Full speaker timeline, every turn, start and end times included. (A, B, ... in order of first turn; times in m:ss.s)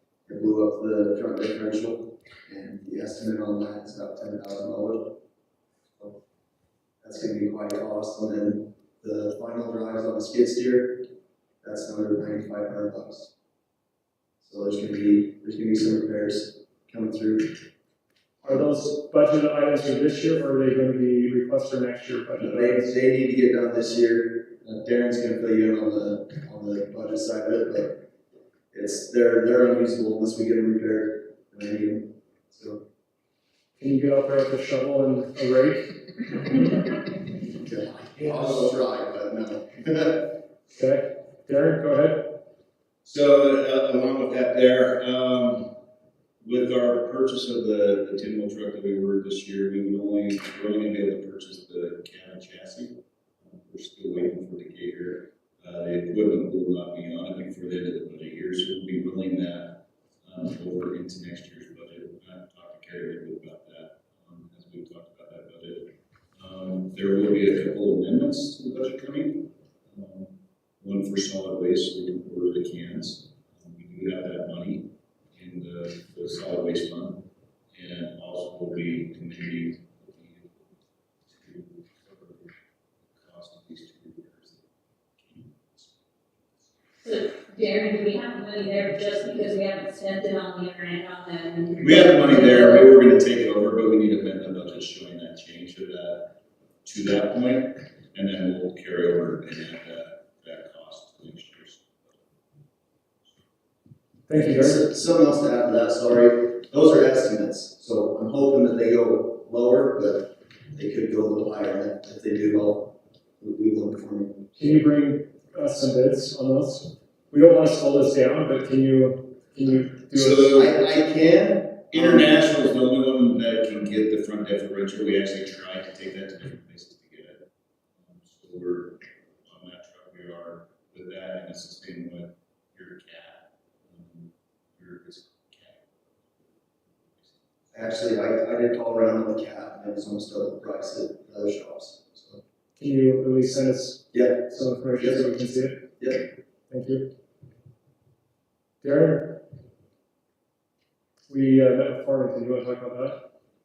0:00.3-0:05.2 A
0:07.0-0:11.1 A
0:11.6-0:13.3 A
0:14.4-0:17.6 A
0:18.4-0:22.9 B
0:22.4-0:28.0 A
0:28.7-0:32.8 A
0:33.8-0:36.0 B
0:37.6-0:40.4 A
0:40.7-0:42.4 B
0:43.0-0:45.8 C
0:46.4-1:20.7 C
1:21.3-1:22.6 C
1:23.1-1:24.7 C
1:25.2-1:26.0 C
1:27.0-1:32.9 D
1:31.8-1:42.2 C
1:44.3-1:44.8 B
1:44.3-1:54.5 A
1:54.6-2:00.6 B
2:00.1-2:02.4 A
2:00.2-2:00.7 C
2:01.9-2:07.4 C
2:08.0-2:15.8 C
2:16.4-2:17.4 C
2:17.7-2:22.4 A
2:22.8-2:25.9 B
2:24.1-2:25.3 A
2:26.7-2:27.1 B
2:28.8-2:29.4 B
2:31.3-2:33.2 B